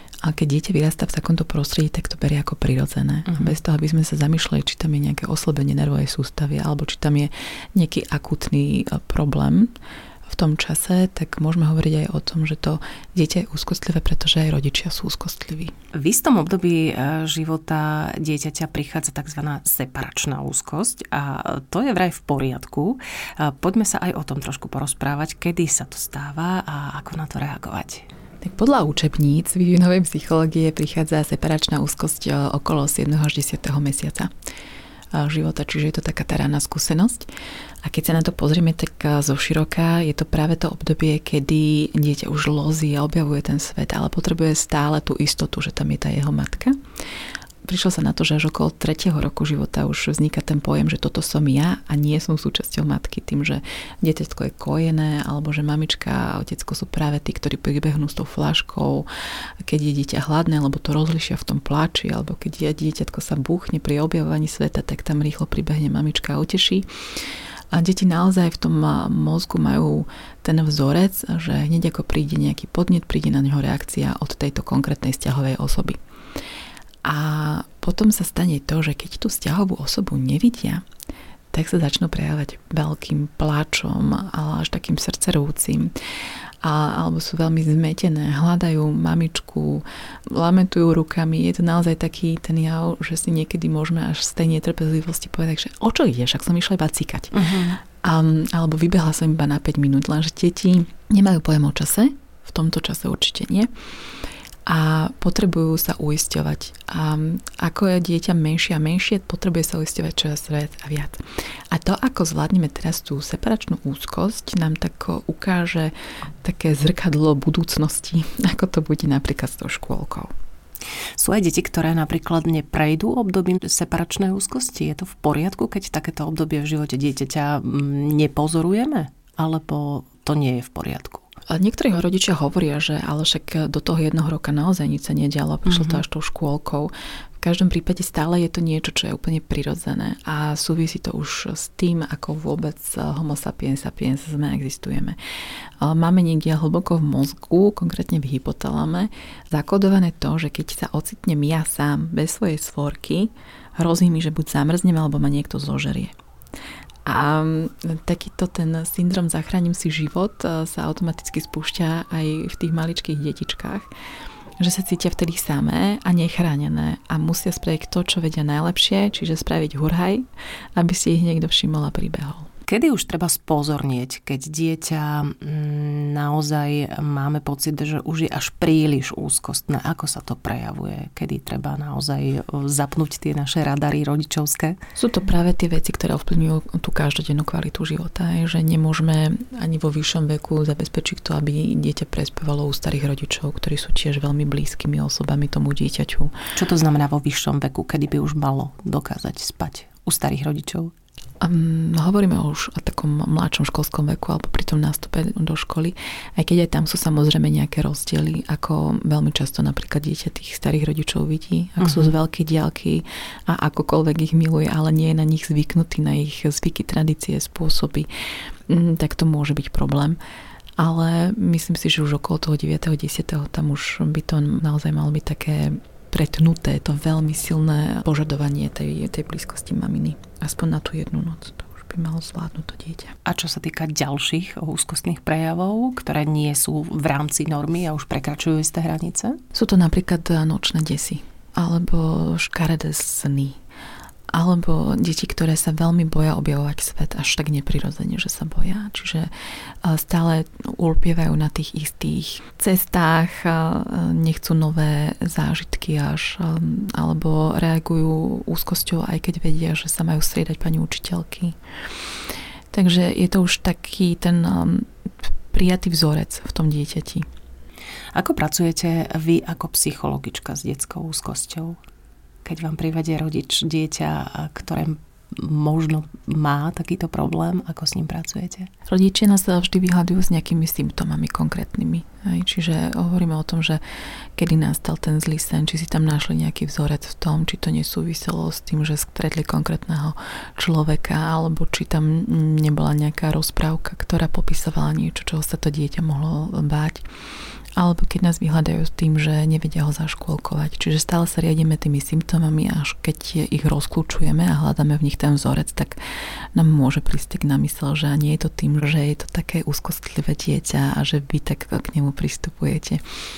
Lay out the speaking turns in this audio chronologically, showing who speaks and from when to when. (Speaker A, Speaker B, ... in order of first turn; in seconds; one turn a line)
Speaker A: 0.2-9.7
Speaker A: 10.3-15.7
Speaker B: 15.9-28.1
Speaker A: 28.4-34.3
Speaker A: 35.1-37.3
Speaker A: 37.8-46.8
Speaker A: 47.6-59.1
Speaker A: 59.6-66.9
Speaker A: 67.7-76.0
Speaker A: 77.0-80.8
Speaker A: 81.5-85.9
Speaker A: 86.6-97.3
Speaker B: 97.3-97.8
Speaker A: 97.9-103.7
Speaker A: 104.7-120.3
Speaker B: 121.2-131.2
Speaker A: 131.5-145.2
Speaker B: 135.7-136.0
Speaker A: 145.8-156.1
Speaker A: 157.1-163.9
Speaker A: 164.6-172.5
Speaker B: 172.7-184.8
Speaker A: 185.0-196.3
Speaker B: 196.6-200.9
Speaker A: 201.4-218.1
Speaker B: 211.8-212.1
Speaker A: 218.7-220.2
Speaker A: 220.8-233.1
Speaker B: 233.2-239.4
Speaker A: 239.5-243.6
Speaker A: 244.3-249.3
Speaker A: 249.8-261.6
Speaker A: 262.7-264.9
Speaker A: 265.5-267.2
Speaker B: 268.1-271.8
Speaker B: 272.4-278.7
Speaker A: 278.9-283.8
Speaker A: 284.4-297.0
Speaker A: 297.8-306.0
Speaker A: 306.5-313.0